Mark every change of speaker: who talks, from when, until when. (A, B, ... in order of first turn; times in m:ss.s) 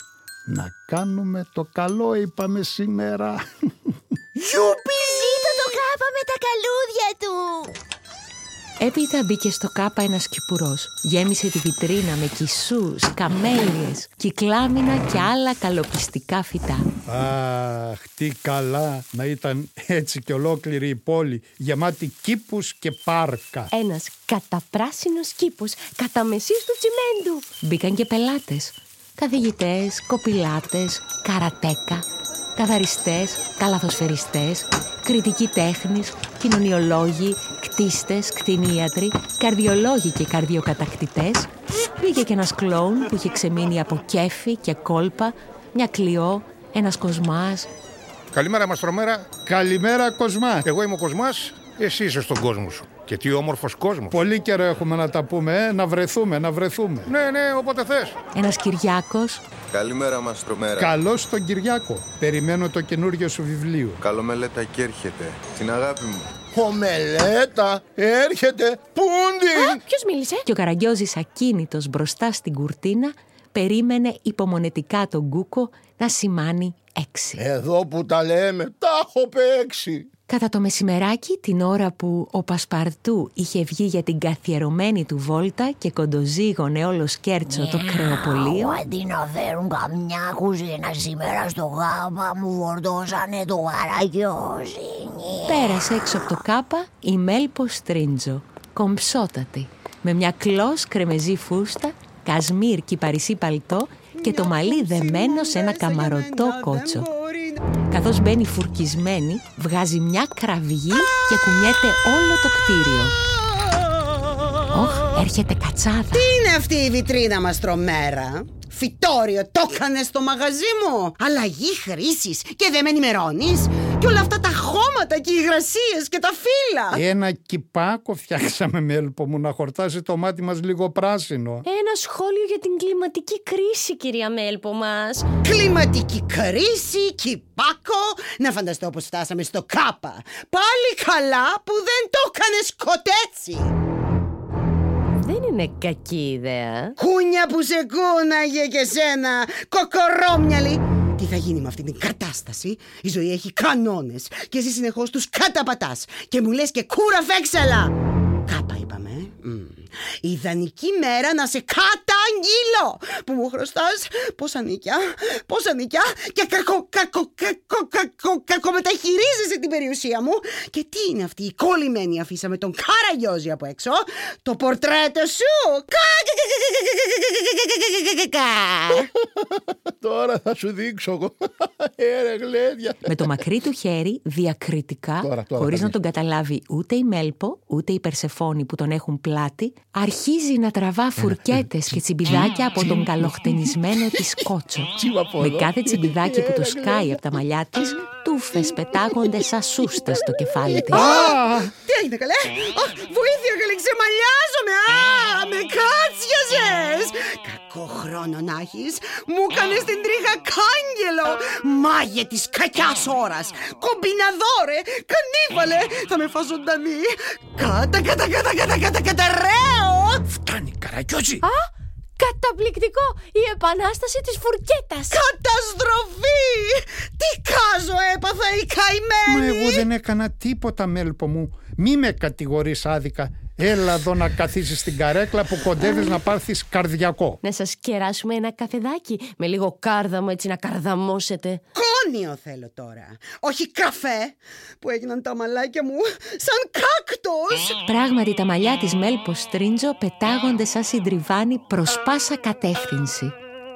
0:00.5-0:04.0 A
0:04.4-0:07.7 B
0:08.8-0:16.8 C
0:17.1-0:23.7 A
0:23.7-0:27.5 D
0:27.6-0:47.7 C
0:48.4-0:49.2 E
0:49.2-0:50.8 A
0:50.7-0:54.1 E
0:54.1-0:57.1 A
0:57.1-0:58.1 E
0:58.3-0:59.4 C
0:59.7-1:00.9 F
1:00.8-1:04.0 A
1:04.0-1:06.2 F
1:06.5-1:09.8 G
1:09.5-1:10.4 D
1:10.4-1:17.4 C
1:17.4-1:20.1 G
1:20.3-1:28.8 C
1:27.5-1:35.9 B
1:35.4-1:47.0 C
1:44.2-1:47.6 H
1:47.9-1:53.1 C
1:54.7-1:56.2 C
1:56.1-2:07.0 H
2:06.9-2:11.6 A
2:11.6-2:15.2 D
2:15.4-2:23.7 H
2:25.2-2:26.9 D
2:27.0-2:37.9 H
2:38.5-2:59.1 H
3:00.0-3:03.1 G
3:03.0-3:21.2 C
3:05.2-3:05.9 G
3:15.0-3:17.2 G
3:20.7-3:40.2 H
3:20.9-3:21.7 A
3:40.3-3:41.4 A
3:41.4-3:45.2 D
3:45.1-3:49.8 H
3:49.3-3:57.4 A
3:57.4-4:01.6 D
4:01.7-4:07.8 H
4:07.8-4:13.3 C